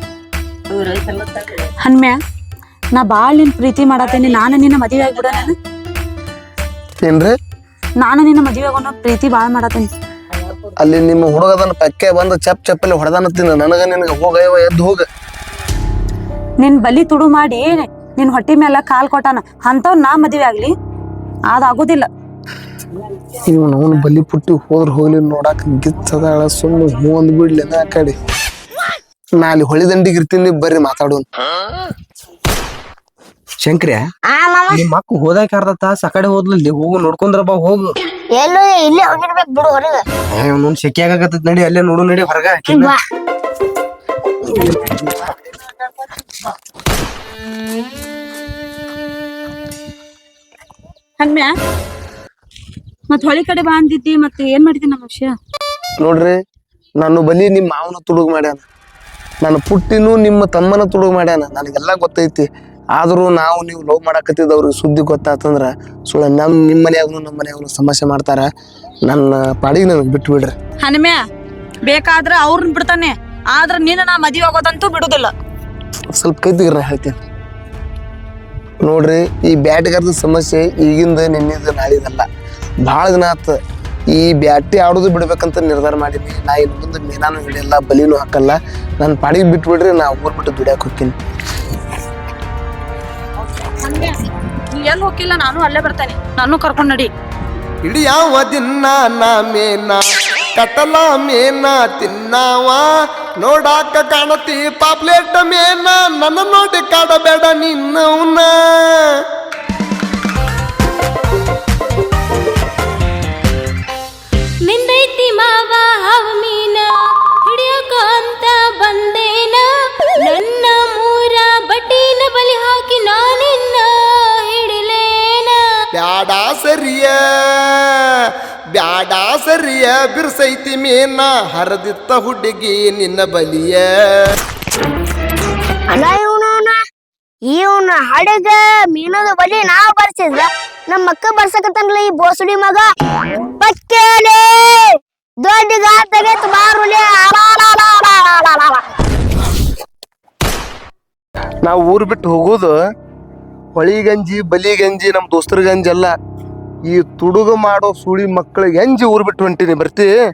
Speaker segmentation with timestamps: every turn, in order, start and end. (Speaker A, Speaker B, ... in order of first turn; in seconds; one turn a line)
Speaker A: 0.8-2.2
Speaker A: 3.0-5.5
Speaker B: 7.0-7.3
Speaker A: 8.0-9.9
Speaker B: 10.7-15.1
Speaker A: 16.6-20.7
Speaker A: 21.5-22.1
Speaker B: 23.4-28.1
Speaker B: 29.4-31.2
Speaker C: 33.6-34.0
Speaker D: 34.3-34.9
Speaker C: 34.7-38.0
Speaker D: 38.4-40.0
Speaker C: 40.3-42.9
Speaker D: 42.7-42.9
Speaker B: 45.2-45.7
Speaker A: 51.2-51.5
Speaker A: 53.1-55.4
Speaker B: 56.0-56.4
Speaker B: 57.0-58.6
Speaker B: 59.4-68.5
Speaker B: 69.0-70.5
Speaker A: 70.8-71.2
Speaker A: 71.8-75.3
Speaker B: 76.2-77.2
Speaker B: 78.8-82.2
Speaker B: 82.8-83.5
Speaker B: 84.1-91.2
Speaker A: 93.5-97.1
Speaker B: 97.8-100.0
Speaker B: 100.5-102.9
Speaker B: 103.4-109.0
Speaker E: 114.6-116.9
Speaker E: 117.4-119.7
Speaker E: 120.2-125.6
Speaker B: 126.0-128.0
Speaker B: 128.7-134.3
Speaker D: 135.9-136.8
Speaker D: 137.5-142.9
Speaker D: 143.6-148.9
Speaker B: 151.6-152.8
Speaker B: 153.8-156.1
Speaker B: 156.9-160.1